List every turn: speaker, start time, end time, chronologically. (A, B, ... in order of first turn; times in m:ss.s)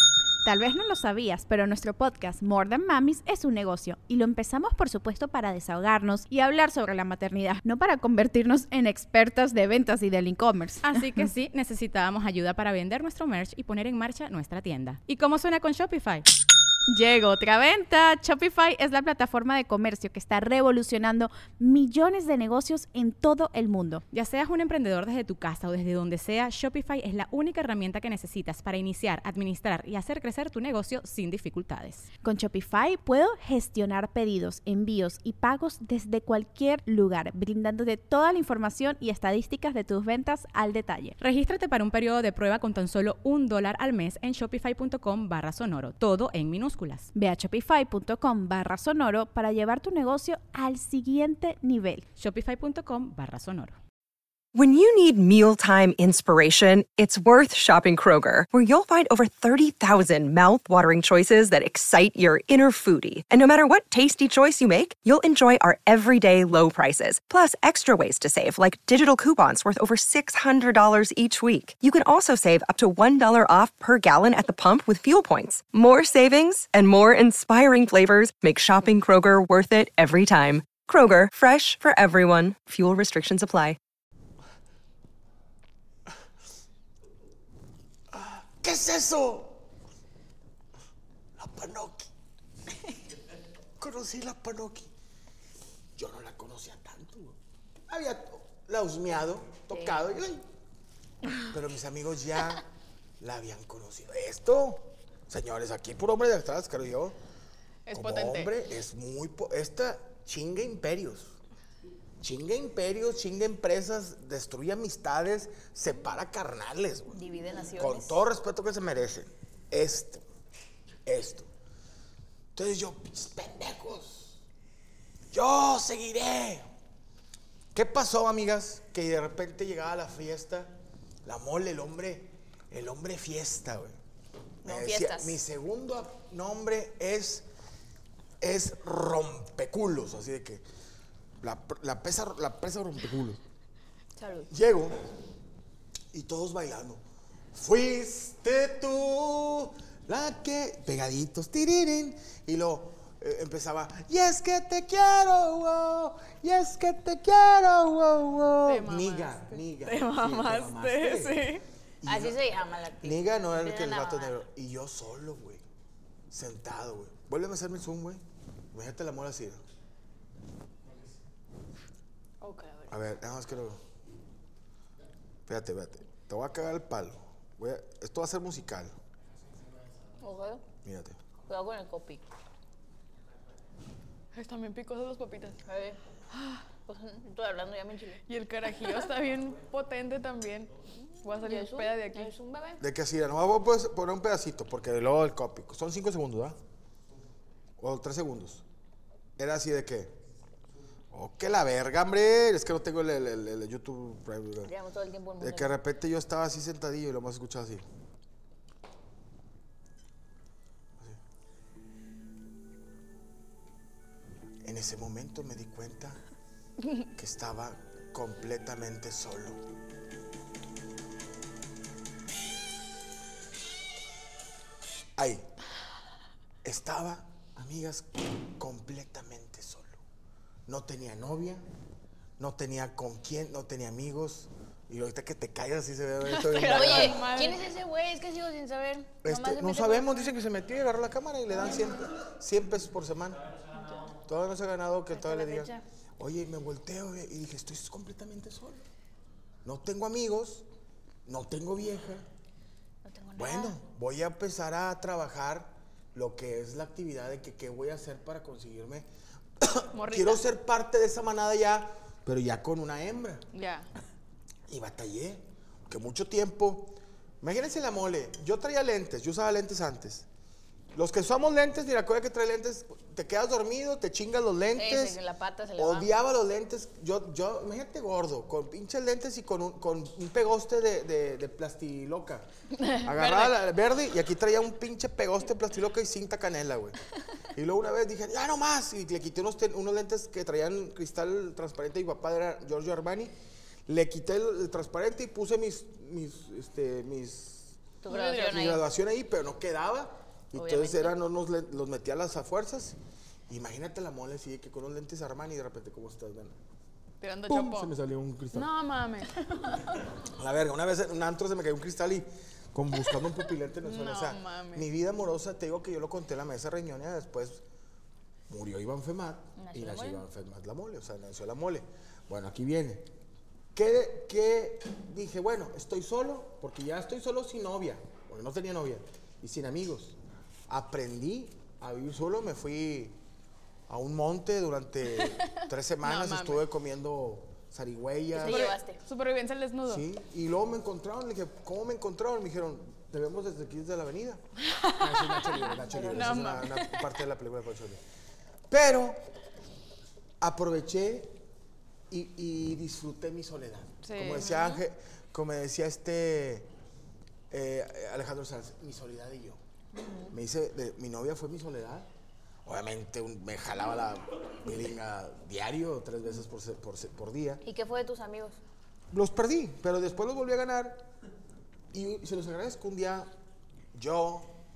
0:00.4-0:11.2 A
0:10.8-0:16.2 B
0:16.9-0:24.0 A
0:24.1-0:32.1 B
0:32.2-0:41.2 A
0:41.2-0:47.1 B
0:47.1-0:52.0 A
0:52.2-0:53.8 B
0:54.5-1:23.8 C
1:28.1-1:29.6 D
1:31.4-1:32.1 D
1:33.8-1:34.9 D
1:36.0-1:40.4 D
1:39.7-1:40.0 E
1:41.5-1:42.6 D
1:43.2-1:47.2 D
1:47.9-1:48.5 F
1:47.9-1:51.4 D
1:52.2-1:57.2 D
1:57.1-1:58.2 E
1:57.8-2:00.2 D
2:01.0-2:01.5 D
2:02.5-2:04.4 D
2:05.3-2:06.7 D
2:07.7-2:14.0 D
2:14.6-2:15.4 E
2:14.6-2:17.4 D
2:18.4-2:20.6 D
2:21.4-2:23.4 D
2:24.2-2:24.5 E
2:24.5-2:25.0 D
2:26.1-2:41.5 D
2:38.6-2:41.6 F
2:42.0-2:45.6 D
2:42.0-2:44.3 E
2:46.3-2:49.6 D
2:52.4-2:53.0 E
2:52.9-2:53.8 D
2:55.5-2:59.0 D
3:00.2-3:00.6 E
3:00.8-3:01.2 D
3:01.5-3:02.2 E
3:04.3-3:05.6 F
3:05.6-3:08.2 E
3:08.3-3:12.3 F
3:11.4-3:12.8 E
3:12.8-3:16.6 D
3:17.8-3:18.6 D
3:19.4-3:20.1 D
3:21.1-3:24.7 D
3:24.6-3:25.7 E
3:25.4-3:27.8 D
3:34.6-3:36.2 D
3:37.1-3:39.6 D
3:45.2-3:45.5 D
3:46.6-3:50.0 D
3:50.7-3:51.6 D
3:52.4-3:57.3 D
3:56.2-3:57.7 F
3:56.6-4:00.3 E
3:59.2-4:03.5 D
4:03.7-4:04.1 E
4:04.2-4:08.8 D
4:05.1-4:05.8 E
4:09.6-4:10.6 D
4:11.2-4:12.2 D
4:13.0-4:13.8 E
4:13.4-4:19.1 D
4:19.6-4:23.4 D
4:19.9-4:20.4 F
4:23.5-4:23.9 F
4:24.7-4:30.3 D
4:30.9-4:35.2 D
4:34.8-4:36.1 E
4:35.8-4:42.5 D
4:42.8-4:43.6 F
4:43.0-4:47.0 D
4:47.5-4:53.3 D
4:53.9-4:57.8 D
4:58.0-4:58.8 E
4:58.1-4:58.7 F
4:58.4-5:03.0 D
5:00.5-5:01.2 E
5:03.5-5:06.6 D
5:07.2-5:07.9 F
5:07.5-5:08.7 D
5:08.5-5:09.4 F
5:10.2-5:17.6 D
5:13.8-5:14.9 F
5:18.5-5:23.1 D
5:19.6-5:20.2 E
5:23.7-5:30.2 D
5:30.7-5:33.2 D
5:33.9-5:38.7 D
5:36.0-5:36.7 F
5:38.3-5:39.0 E
5:38.4-5:40.1 F
5:39.8-5:44.4 D
5:44.6-5:47.1 F
5:45.0-5:48.0 D
5:45.9-5:46.4 E
5:48.7-5:49.2 D
5:50.4-5:51.4 D
5:52.1-5:56.7 D
5:54.0-5:54.7 F
5:54.4-5:54.8 E
5:57.5-5:59.6 D
5:59.9-6:00.4 E
6:00.3-6:02.1 D
6:02.6-6:07.6 D
6:07.6-6:08.6 E
6:09.1-6:11.1 D
6:11.9-6:13.3 D
6:13.9-6:14.5 D